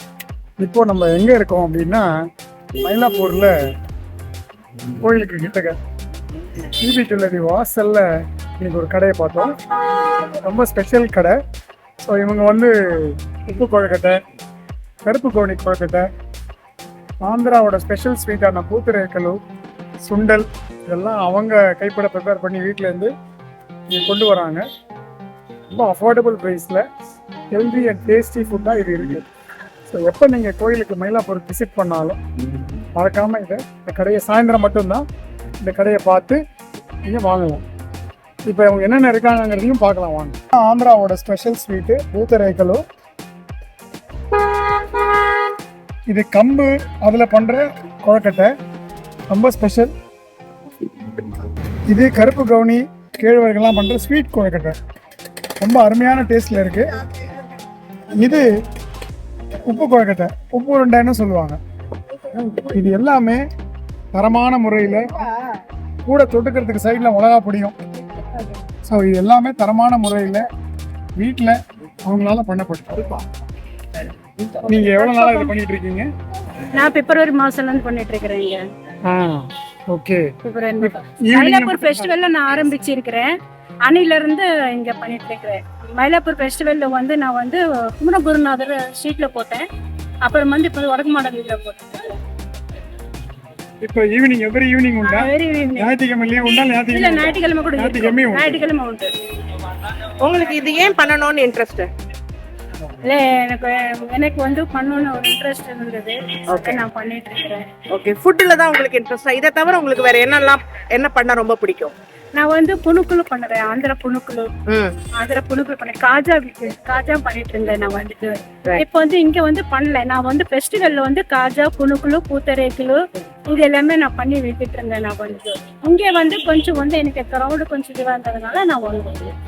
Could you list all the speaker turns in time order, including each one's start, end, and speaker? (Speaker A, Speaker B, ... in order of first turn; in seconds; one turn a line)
Speaker A: 0.6-2.1
Speaker A: 2.8-3.5
Speaker A: 5.0-5.8
Speaker A: 6.8-8.1
Speaker A: 8.6-9.6
Speaker A: 10.4-11.3
Speaker A: 12.0-14.2
Speaker A: 15.0-16.1
Speaker A: 17.2-19.4
Speaker A: 20.0-23.1
Speaker A: 23.9-24.6
Speaker A: 25.7-26.8
Speaker A: 27.5-29.3
Speaker A: 29.9-32.2
Speaker A: 32.9-35.0
Speaker A: 35.6-36.4
Speaker A: 37.0-37.6
Speaker A: 38.5-42.8
Speaker A: 46.1-48.5
Speaker A: 49.3-49.9
Speaker A: 51.9-54.8
Speaker A: 55.6-57.0
Speaker A: 58.1-58.5
Speaker A: 59.6-61.6
Speaker A: 62.3-63.4
Speaker A: 64.1-65.2
Speaker A: 66.0-67.7
Speaker A: 68.8-70.4
Speaker A: 71.2-73.2
Speaker A: 74.6-76.1
Speaker B: 74.7-75.5
Speaker B: 76.7-78.6
Speaker A: 79.1-80.3
Speaker B: 80.4-83.3
Speaker A: 80.8-82.1
Speaker B: 83.8-89.7
Speaker B: 90.2-92.2
Speaker A: 93.8-98.6
Speaker B: 95.0-95.9
Speaker B: 96.9-99.1
Speaker C: 100.2-101.9
Speaker B: 103.0-107.7
Speaker C: 106.5-106.8
Speaker C: 107.9-111.9
Speaker B: 112.4-114.5
Speaker C: 114.7-115.0
Speaker B: 115.2-129.3